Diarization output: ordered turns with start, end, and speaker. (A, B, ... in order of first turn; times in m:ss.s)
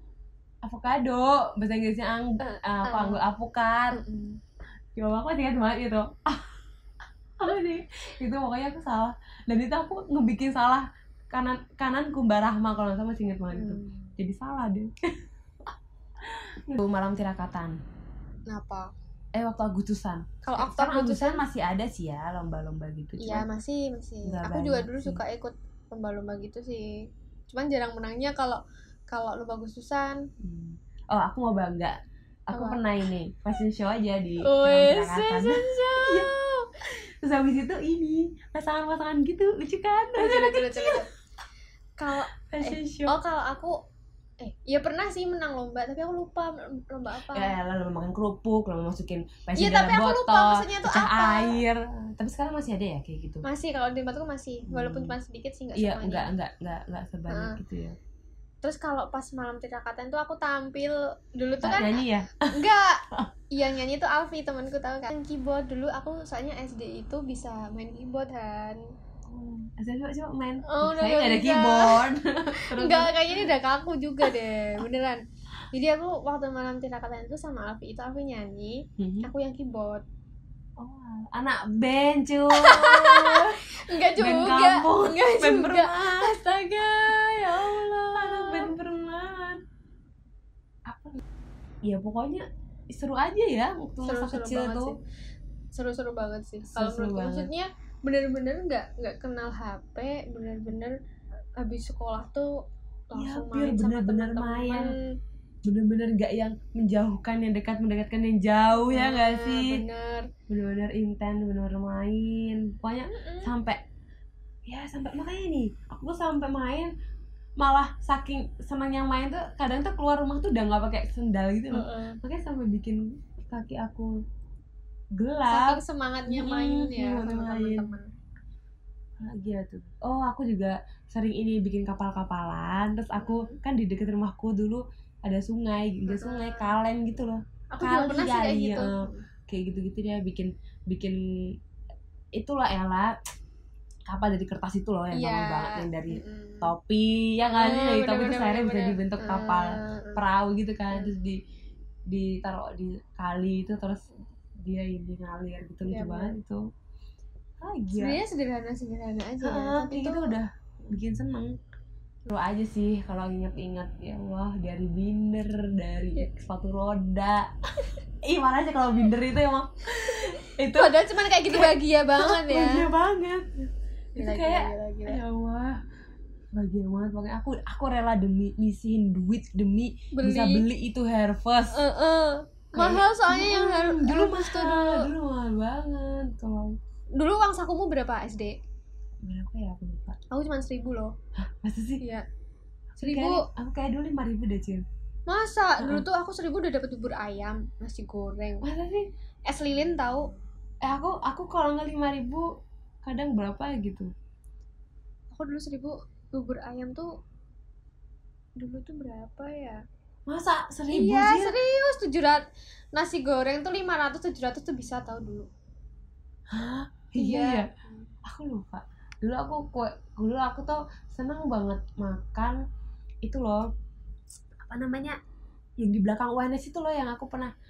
0:00.6-0:04.0 A
0:02.8-0:03.2 B
0:03.9-0:04.4 B
0:05.0-0:06.5 A
0:07.4-0:15.1 A
0:13.5-0:14.1 B
0:15.6-0:17.8 A
0:18.5-0:18.9 B
0:19.3-0:23.5 A
0:20.4-0:21.4 B
0:23.2-0:27.0 B
0:24.2-0:25.2 A
0:27.5-0:30.2 B
0:30.4-0:32.0 A
0:32.5-0:36.3 A
0:32.5-0:32.8 B
0:34.4-0:36.7 B
0:36.8-0:41.0 A
0:40.2-0:41.1 B
0:42.0-0:43.8 B
0:42.1-0:43.2 A
0:44.4-0:47.5 B
0:47.3-0:53.4 A
0:49.6-0:51.6 B
0:53.4-0:56.3 B
0:54.7-0:55.2 A
0:55.8-0:58.0 A
0:57.3-0:57.6 B
0:58.6-1:08.8 B
1:01.6-1:02.5 A
1:09.2-1:13.5 A
1:10.6-1:12.0 B
1:12.6-1:20.0 B
1:19.0-1:19.3 A
1:20.8-1:26.3 A
1:22.5-1:28.7 B
1:27.1-1:29.6 A
1:30.9-1:31.2 A
1:31.8-1:35.0 A
1:34.0-1:35.0 B
1:35.7-1:41.0 B
1:36.7-1:37.5 A
1:41.6-1:42.5 B
1:43.1-1:45.1 B
1:43.1-1:44.9 A
1:45.6-1:49.8 A
1:48.7-1:50.3 B
1:50.5-1:53.8 A
1:53.1-1:53.5 B
1:54.7-1:56.9 A
1:57.6-2:04.1 A
2:01.7-2:02.2 B
2:05.1-2:07.9 A
2:05.5-2:08.1 B
2:09.2-2:21.6 A
2:13.2-2:13.6 B
2:16.1-2:16.7 B
2:17.7-2:19.2 B
2:22.3-2:23.1 A
2:24.1-2:31.4 A
2:25.1-2:26.7 B
2:27.5-2:30.2 B
2:32.1-2:34.0 A
2:34.6-2:36.6 A
2:35.8-2:36.4 B
2:37.6-2:38.2 A
2:37.9-2:40.4 B
2:39.4-2:41.5 A
2:42.3-2:47.5 A
2:48.2-2:55.8 A
2:50.0-2:52.9 B
2:54.2-2:55.2 B
2:56.5-3:01.8 A
3:00.1-3:00.6 B
3:01.7-3:05.1 B
3:02.7-3:06.8 A
3:07.2-3:08.6 B
3:09.2-3:10.2 A
3:10.3-3:11.1 B
3:11.4-3:12.0 A
3:13.0-3:14.8 A
3:13.0-3:13.4 B
3:15.3-3:18.7 B
3:15.8-3:16.0 A
3:18.6-3:19.1 A
3:19.5-3:20.3 B
3:20.8-3:22.5 A
3:23.0-3:24.1 A
3:25.3-3:27.1 B
3:28.6-3:29.8 B
3:30.3-3:31.6 A
3:30.9-3:32.4 B
3:33.0-3:35.5 B
3:36.5-3:37.7 A
3:37.2-3:38.1 B
3:38.2-3:42.6 A
3:43.2-3:43.7 A
3:44.6-3:45.2 A
3:45.8-3:47.5 A